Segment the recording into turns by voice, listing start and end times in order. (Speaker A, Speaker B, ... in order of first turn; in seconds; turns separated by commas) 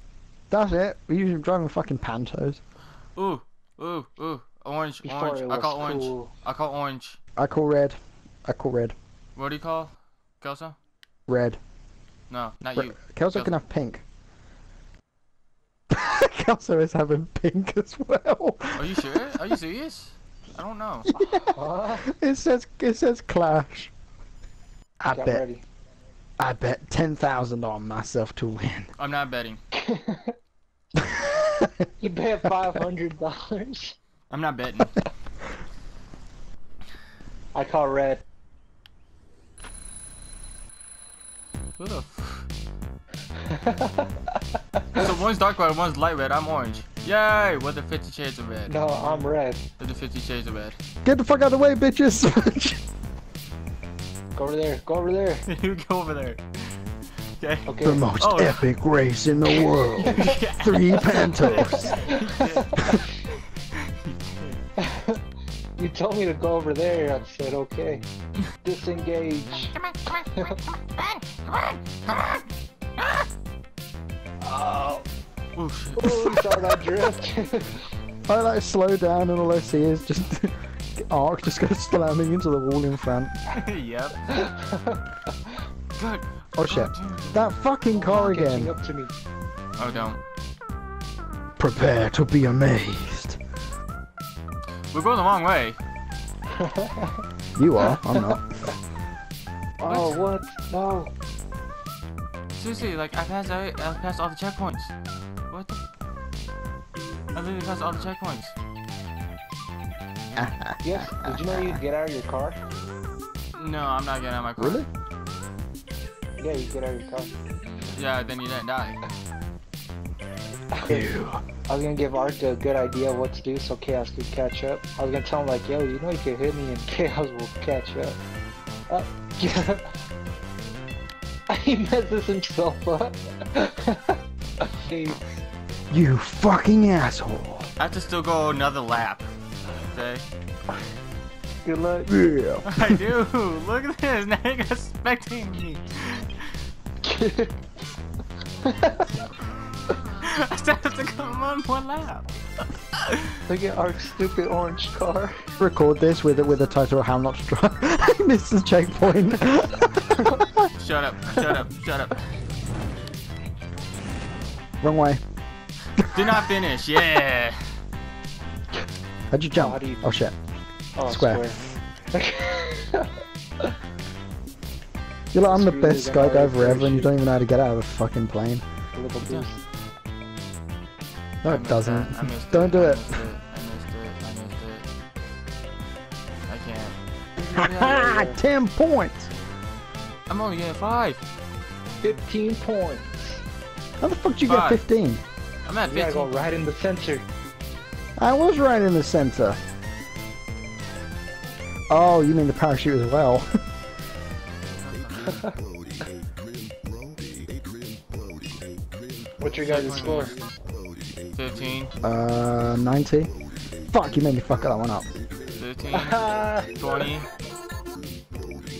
Speaker A: 0.5-2.6, Speaker B: 3.1-7.2, Speaker C: 5.0-6.3, Speaker A: 7.4-8.9, Speaker B: 9.3-10.8, Speaker A: 11.3-11.6, Speaker B: 12.3-13.6, Speaker A: 12.8-14.0, Speaker A: 15.9-19.4, Speaker B: 18.8-21.1, Speaker A: 21.1-23.9, Speaker C: 21.5-22.0, Speaker A: 25.0-25.4, Speaker C: 25.1-25.6, Speaker A: 26.4-28.9, Speaker B: 29.0-29.6, Speaker C: 29.7-30.3, Speaker A: 31.2-31.5, Speaker C: 32.0-34.0, Speaker B: 34.3-35.0, Speaker C: 37.5-38.2, Speaker B: 41.8-42.5, Speaker C: 43.5-45.1, Speaker B: 44.9-50.8, Speaker C: 48.7-49.6, Speaker A: 51.0-52.8, Speaker C: 54.3-55.4, Speaker B: 55.5-56.4, Speaker B: 57.4-58.7, Speaker C: 57.7-58.0, Speaker A: 57.8-62.0, Speaker C: 59.5-60.3, Speaker B: 60.0-63.0, Speaker C: 61.5-63.0, Speaker B: 63.7-64.6, Speaker C: 64.8-65.2, Speaker C: 65.8-68.0, Speaker C: 68.6-70.6, Speaker B: 71.0-72.3, Speaker C: 74.4-75.0, Speaker B: 75.5-76.4, Speaker C: 76.0-77.7, Speaker A: 78.3-83.3, Speaker B: 83.5-84.4, Speaker C: 84.3-85.6, Speaker B: 86.0-87.4, Speaker A: 86.5-88.7, Speaker C: 87.9-89.1, Speaker B: 89.8-90.2, Speaker A: 91.6-93.4, Speaker B: 94.9-95.8, Speaker C: 96.5-97.1, Speaker A: 97.6-98.4, Speaker C: 97.8-98.3, Speaker C: 99.8-101.1, Speaker B: 99.8-100.2, Speaker B: 102.5-104.9, Speaker B: 105.5-105.8, Speaker B: 107.3-108.5, Speaker A: 110.3-111.8, Speaker C: 110.8-112.6, Speaker B: 113.5-114.8, Speaker A: 114.6-114.8, Speaker C: 116.4-117.3, Speaker B: 117.9-119.0, Speaker C: 120.7-121.1, Speaker A: 120.9-121.4, Speaker C: 121.6-128.2, Speaker C: 128.9-129.8, Speaker C: 131.5-135.4, Speaker A: 135.9-137.7, Speaker B: 137.8-139.3, Speaker B: 139.8-140.2, Speaker C: 141.6-142.3, Speaker A: 142.1-143.0, Speaker B: 142.7-146.3, Speaker C: 147.0-147.5, Speaker C: 148.6-149.2, Speaker B: 150.2-152.2, Speaker B: 152.9-153.3, Speaker C: 153.5-155.4, Speaker A: 155.6-160.6, Speaker B: 160.7-162.2, Speaker A: 164.8-165.2, Speaker A: 166.0-166.4, Speaker B: 166.0-167.7, Speaker A: 169.3-170.3, Speaker C: 169.5-170.1, Speaker C: 170.9-171.6, Speaker A: 171.0-171.5, Speaker C: 172.1-173.1, Speaker A: 175.3-178.6, Speaker C: 175.4-177.1, Speaker C: 178.9-179.6, Speaker B: 179.2-179.4, Speaker A: 181.4-183.2, Speaker B: 181.4-184.9, Speaker B: 186.5-187.0, Speaker C: 187.4-188.4, Speaker B: 187.6-188.0, Speaker A: 187.6-189.3, Speaker B: 190.3-191.2, Speaker C: 192.0-193.4, Speaker A: 194.0-195.2, Speaker B: 194.4-194.8, Speaker B: 195.7-196.5, Speaker C: 195.9-197.2, Speaker A: 198.2-199.6, Speaker A: 201.9-203.5, Speaker B: 204.8-205.4, Speaker C: 205.2-205.5, Speaker C: 209.4-210.3, Speaker B: 209.6-210.4, Speaker B: 211.3-211.9, Speaker A: 212.0-213.3, Speaker A: 213.9-215.1, Speaker B: 215.6-217.3, Speaker C: 215.9-217.1